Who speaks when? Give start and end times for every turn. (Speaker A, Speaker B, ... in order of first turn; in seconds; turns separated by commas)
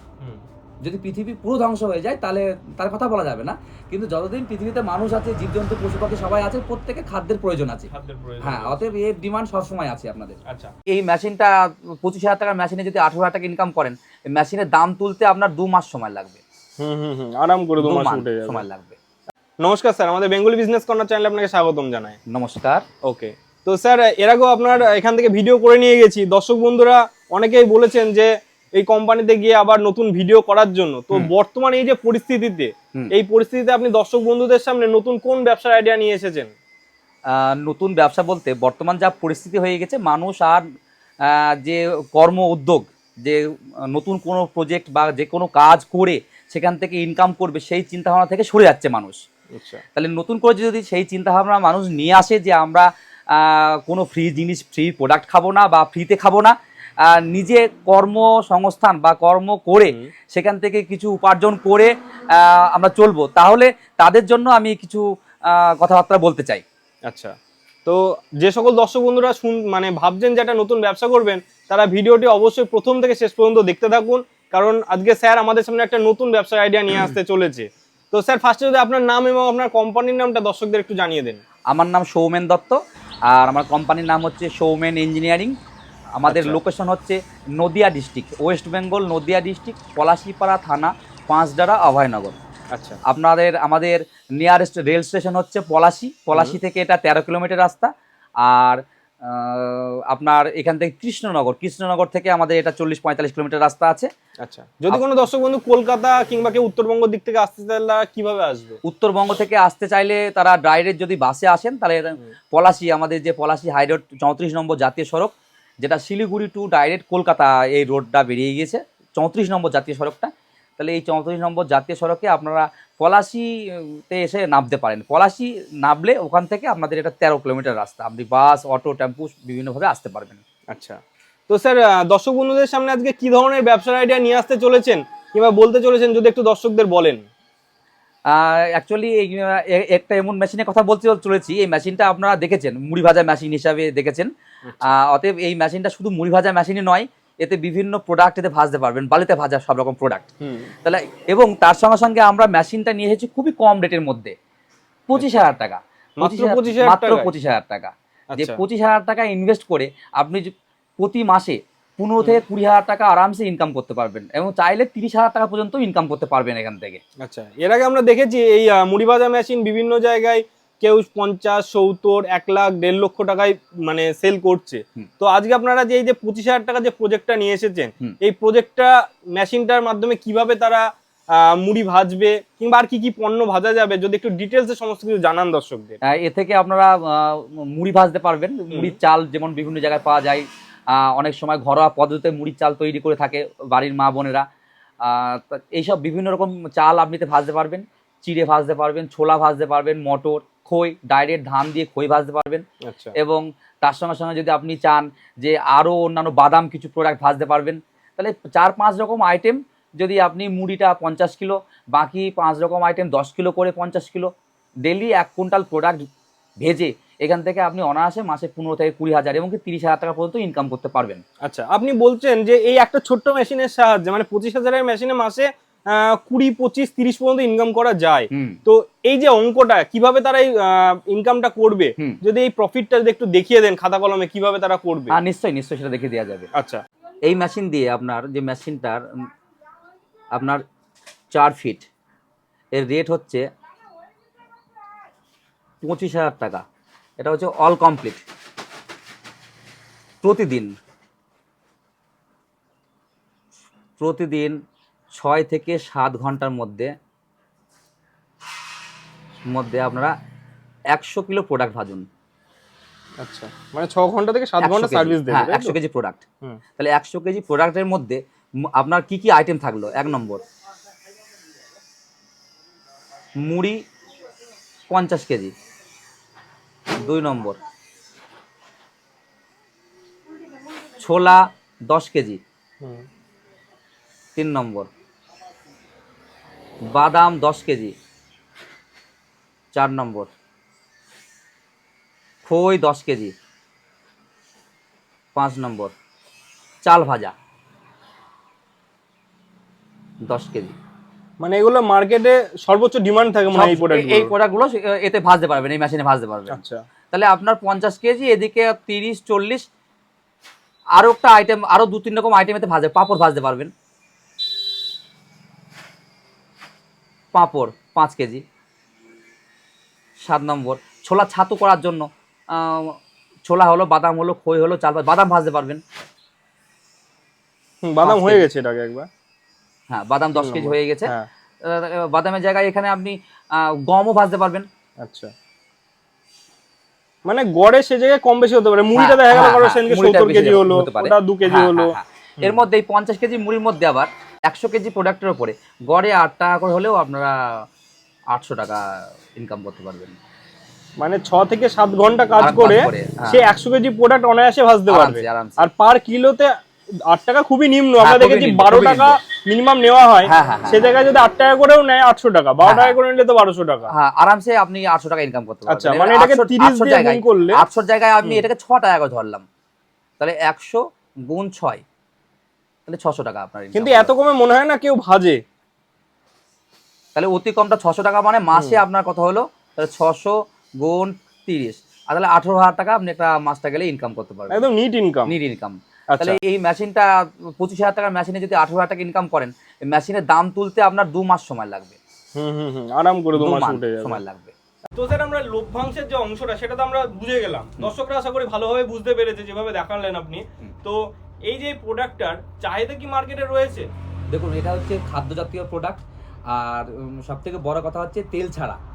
Speaker A: 0.8-7.9, Speaker B: 7.9-8.8, Speaker A: 8.4-16.4, Speaker B: 10.5-10.7, Speaker B: 16.8-18.6, Speaker A: 17.8-19.0, Speaker B: 19.6-22.1, Speaker A: 22.3-22.8, Speaker B: 23.0-36.5, Speaker A: 37.3-40.6, Speaker A: 41.2-49.2, Speaker B: 49.5-49.8, Speaker A: 49.9-56.5, Speaker A: 57.0-66.6, Speaker B: 67.0-67.3, Speaker B: 67.8-81.4, Speaker A: 81.7-85.5, Speaker A: 86.2-92.4, Speaker B: 86.3-86.6, Speaker B: 92.7-93.0, Speaker A: 93.1-97.9, Speaker A: 98.4-104.1, Speaker B: 104.4-108.8, Speaker A: 108.8-130.4, Speaker B: 130.7-137.2, Speaker A: 138.3-144.3, Speaker B: 144.7-144.9, Speaker A: 144.8-150.3, Speaker B: 150.4-150.7, Speaker A: 150.8-154.3, Speaker A: 155.1-167.0, Speaker B: 155.2-155.4, Speaker B: 156.2-157.3, Speaker B: 158.3-158.6, Speaker B: 167.2-186.0, Speaker A: 186.0-194.4, Speaker B: 188.7-188.9, Speaker A: 195.0-202.6, Speaker B: 202.8-203.1, Speaker A: 203.2-214.3, Speaker A: 214.8-216.0, Speaker A: 216.6-221.2, Speaker B: 221.4-235.1, Speaker A: 228.3-228.6, Speaker A: 235.1-236.5, Speaker B: 236.5-236.8, Speaker A: 237.3-239.3, Speaker A: 240.3-240.6, Speaker A: 241.3-241.9, Speaker A: 242.8-243.4, Speaker A: 245.8-246.6, Speaker A: 247.2-248.2, Speaker A: 250.2-250.7, Speaker A: 254.0-254.6, Speaker A: 255.2-256.9, Speaker A: 259.5-260.1, Speaker A: 260.9-262.1, Speaker B: 263.2-265.8, Speaker A: 264.6-266.2, Speaker A: 266.8-268.2, Speaker A: 268.8-270.4, Speaker A: 273.4-273.8, Speaker A: 274.9-275.5, Speaker A: 276.9-277.6, Speaker A: 280.9-282.4, Speaker A: 284.4-284.9, Speaker A: 286.9-287.9, Speaker A: 289.7-290.3, Speaker A: 292.4-293.3, Speaker A: 295.3-295.9, Speaker A: 296.8-297.3, Speaker A: 300.2-300.7, Speaker B: 301.4-304.3, Speaker A: 303.5-306.6, Speaker B: 306.5-306.8, Speaker A: 307.1-309.6, Speaker A: 311.0-313.7, Speaker A: 317.3-318.4, Speaker A: 320.2-323.0, Speaker A: 323.5-325.8, Speaker B: 327.8-329.1, Speaker A: 328.0-328.5, Speaker A: 329.9-331.1, Speaker B: 330.4-331.3, Speaker A: 331.6-334.6, Speaker B: 335.0-335.3, Speaker B: 337.2-342.6, Speaker A: 338.9-347.6, Speaker A: 348.3-348.8, Speaker A: 349.4-350.2, Speaker B: 351.0-356.5, Speaker A: 352.4-353.4, Speaker A: 354.9-355.6, Speaker B: 357.1-363.9, Speaker A: 358.0-359.2, Speaker A: 360.2-360.9, Speaker A: 362.6-363.0, Speaker A: 363.9-369.4, Speaker B: 365.7-367.6, Speaker A: 370.2-371.8, Speaker A: 372.9-374.1, Speaker B: 373.7-375.4, Speaker A: 377.1-384.7, Speaker B: 378.5-378.8, Speaker B: 384.5-385.3, Speaker A: 385.2-392.0, Speaker B: 386.1-386.4, Speaker B: 392.4-394.2, Speaker A: 393.4-394.5, Speaker B: 394.9-403.9, Speaker A: 404.3-408.8